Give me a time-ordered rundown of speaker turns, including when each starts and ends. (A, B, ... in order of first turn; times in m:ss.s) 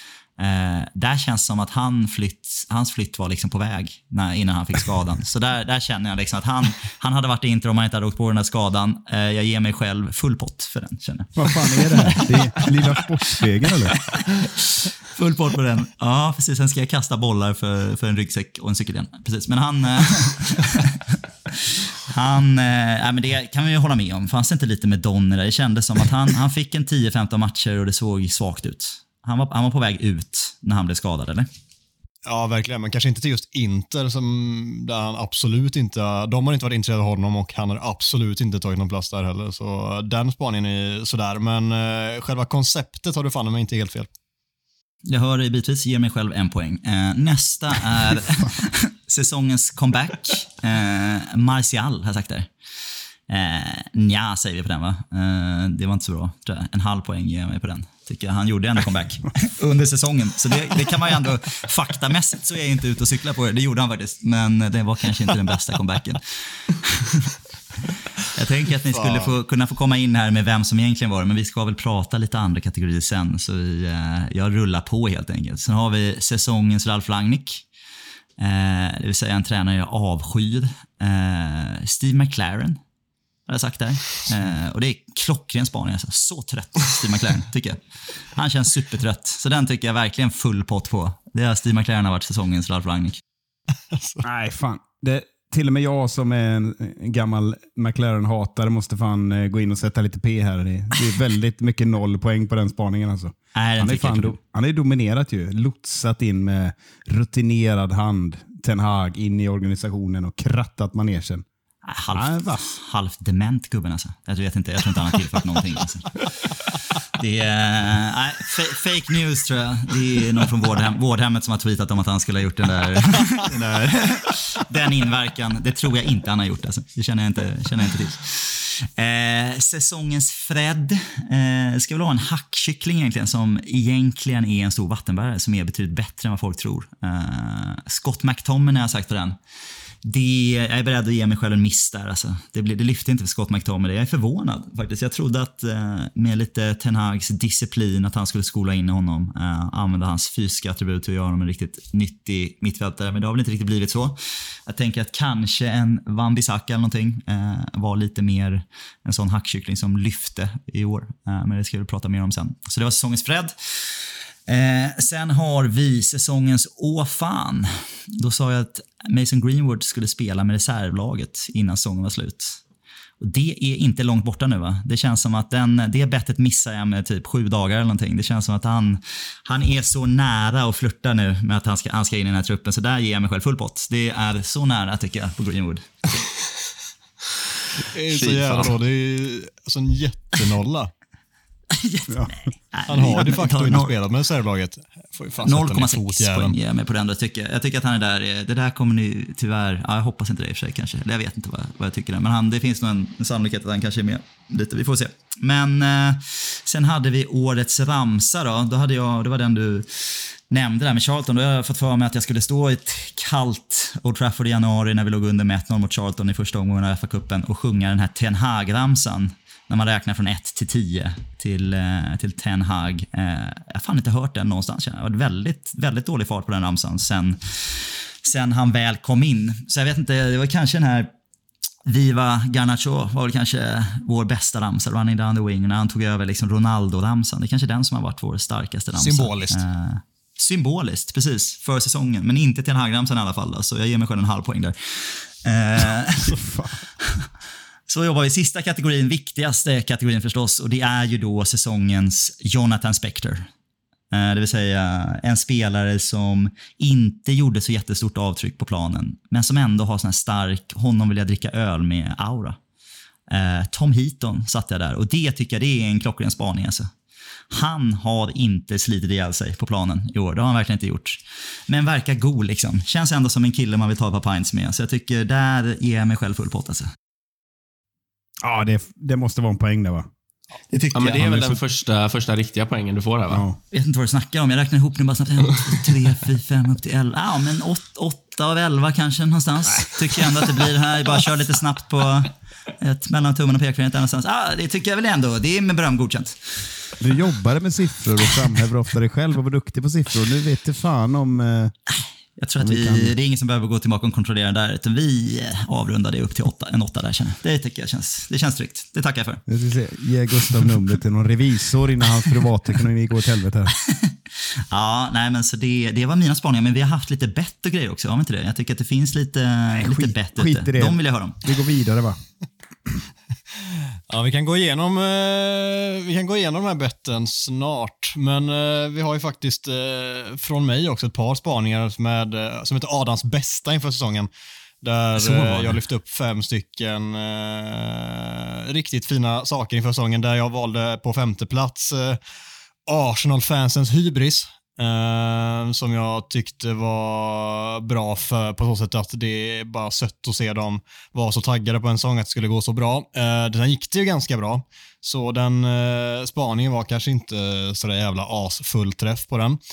0:00.4-0:13.0 A
0:11.4-0:13.9 B
0:14.3-0:31.5 A
0:32.2-0:44.1 C
0:45.0-0:52.5 A
0:53.3-1:17.6 A
1:08.9-1:09.3 C
1:18.4-1:22.8 A
1:23.5-1:33.2 A
1:33.9-1:34.2 C
1:34.2-1:51.4 B
1:43.5-1:44.3 A
1:51.8-2:19.4 A
1:52.1-1:52.6 B
2:20.0-2:52.6 A
2:53.2-3:05.8 A
3:07.8-3:10.9 C
3:08.1-3:08.7 A
3:11.7-3:13.9 A
3:12.1-3:12.3 B
3:12.9-3:16.6 C
3:15.4-3:51.1 A
3:51.8-4:06.4 A
3:58.9-3:59.6 C
4:06.3-4:06.8 B
4:07.0-4:07.3 A
4:07.9-4:13.5 A
4:14.1-4:22.6 A
4:23.3-4:26.9 A
4:27.5-4:36.9 A
4:38.4-4:40.1 B
4:40.7-4:41.3 A
4:40.9-4:43.4 D
4:41.2-4:41.6 B
4:43.3-4:43.6 B
4:43.7-4:56.9 A
4:57.0-5:01.7 B
5:01.9-5:09.4 A
5:02.6-5:03.1 B
5:09.5-5:13.7 B
5:13.9-5:21.5 A
5:19.7-5:22.2 B
5:24.1-5:34.3 C
5:34.8-5:42.2 C
5:35.2-5:35.8 A
5:42.8-5:59.6 C